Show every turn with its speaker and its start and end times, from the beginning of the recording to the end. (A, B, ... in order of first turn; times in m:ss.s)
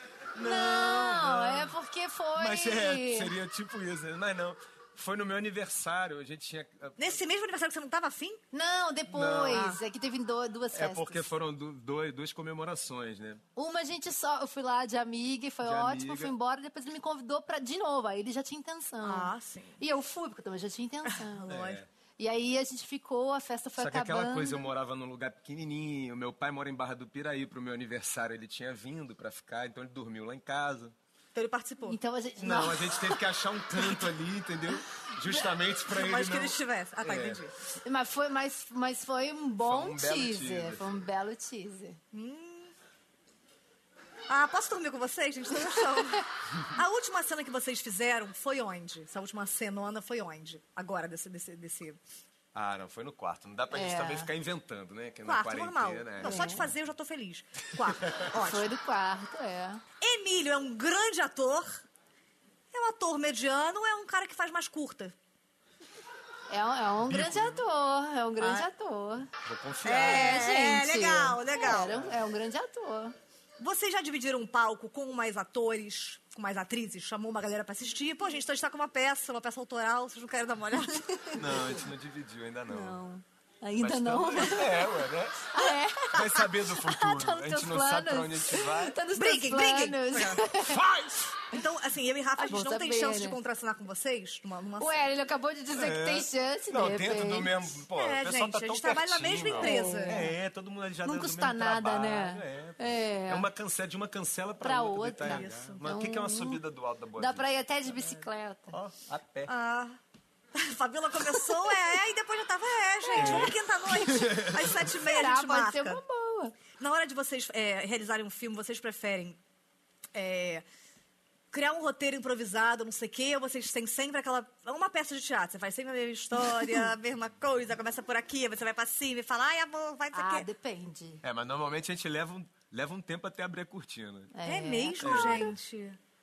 0:00.4-0:01.7 A
0:00.4-0:03.4 B
0:02.4-0:07.2 A
0:07.0-0:08.4 C
0:08.5-0:11.2 B
0:09.1-0:09.8 A
0:09.5-0:09.8 C
0:10.7-0:13.4 A
0:13.6-0:21.6 B
0:15.6-0:16.3 A
0:19.0-0:19.8 C
0:21.1-0:21.8 C
0:21.5-0:21.9 A
0:22.2-0:24.7 B
0:23.8-0:31.0 A
0:31.3-0:32.0 C
0:31.9-0:33.2 B
0:32.4-0:37.4 A
0:35.3-0:37.5 C
0:37.8-0:42.0 B
0:39.6-0:41.0 A
0:42.1-0:42.7 C
0:44.3-0:52.0 C
0:52.5-0:56.7 A
0:53.7-0:54.3 B
0:55.2-0:58.7 C
0:56.2-0:56.7 B
0:58.3-0:59.8 B
1:00.0-1:01.8 C
1:02.7-1:05.2 C
1:06.5-1:09.3 B
1:07.0-1:07.6 A
1:08.4-1:08.7 C
1:09.4-1:10.5 A
1:09.8-1:12.0 C
1:10.0-1:13.2 B
1:11.7-1:12.2 A
1:13.6-1:21.1 C
1:21.1-1:21.8 B
1:21.3-1:23.0 A
1:22.7-1:30.8 B
1:23.8-1:29.0 A
1:29.2-1:30.5 C
1:30.6-1:31.4 A
1:31.5-1:35.1 C
1:32.4-1:33.4 B
1:34.8-1:37.7 B
1:35.7-1:49.5 A
1:38.0-1:40.3 C
1:39.5-1:40.4 B
1:41.0-1:43.5 B
1:44.6-1:46.6 B
1:45.2-1:45.8 C
1:47.2-1:48.8 B
1:49.5-1:50.0 C
1:50.6-1:56.0 C
1:53.2-1:54.7 A
1:54.8-1:56.6 B
1:56.8-1:59.4 C
2:00.1-2:00.6 C
2:01.5-2:10.5 C
2:10.1-2:11.2 B
2:11.2-2:14.3 A
2:14.3-2:15.6 B
2:14.4-2:16.0 C
2:15.0-2:15.5 A